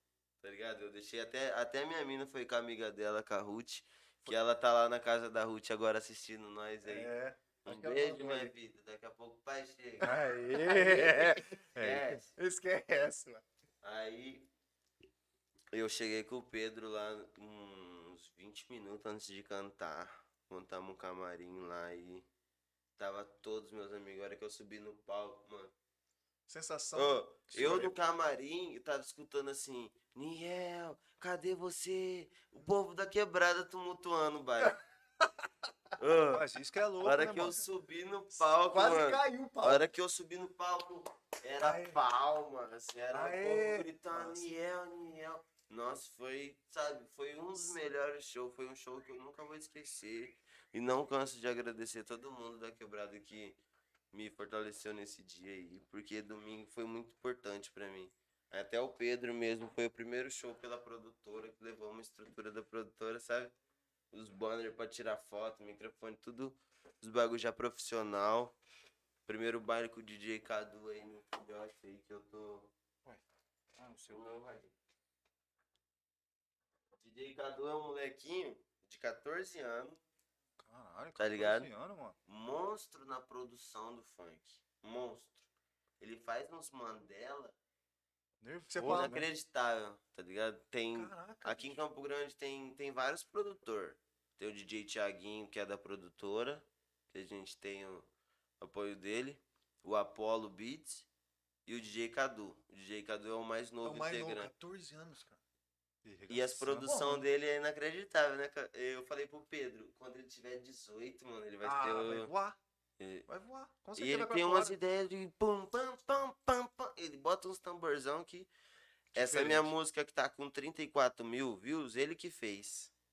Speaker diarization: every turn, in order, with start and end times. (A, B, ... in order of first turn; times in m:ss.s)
0:00.4-0:07.1 A
0:06.8-0:08.5 B
0:07.6-0:10.2 A
0:10.0-0:12.2 C
0:10.5-0:11.6 B
0:11.8-0:12.3 A
0:12.4-0:13.4 B
0:13.8-0:14.5 A
0:15.7-0:22.3 A
0:23.0-0:25.7 A
0:26.5-0:27.9 B
0:26.9-0:34.8 A
0:27.6-0:27.9 C
0:36.0-0:36.4 A
0:36.3-0:37.6 C
0:37.0-0:53.6 A
0:38.7-0:39.9 B
0:41.6-0:42.0 B
0:43.1-0:44.4 B
0:54.1-1:03.5 A
1:04.1-1:08.6 A
1:09.2-1:12.7 A
1:13.8-1:14.2 C
1:14.1-1:14.7 A
1:17.0-1:20.0 A
1:20.6-1:22.2 C
1:21.2-1:21.7 A
1:22.2-1:25.5 A
1:26.0-1:27.6 A
1:28.4-1:29.3 C
1:28.7-1:29.2 B
1:28.8-1:38.1 A
1:30.9-1:31.8 B
1:38.6-1:41.1 A
1:41.6-1:44.5 A
1:43.8-1:45.4 B
1:46.0-1:47.2 C
1:46.3-1:52.3 A
1:46.9-1:47.2 B
1:51.6-1:52.6 B
1:53.0-1:53.3 A
1:53.3-1:54.8 B
1:54.0-1:58.5 A
1:59.1-2:02.9 A
1:59.1-1:59.7 C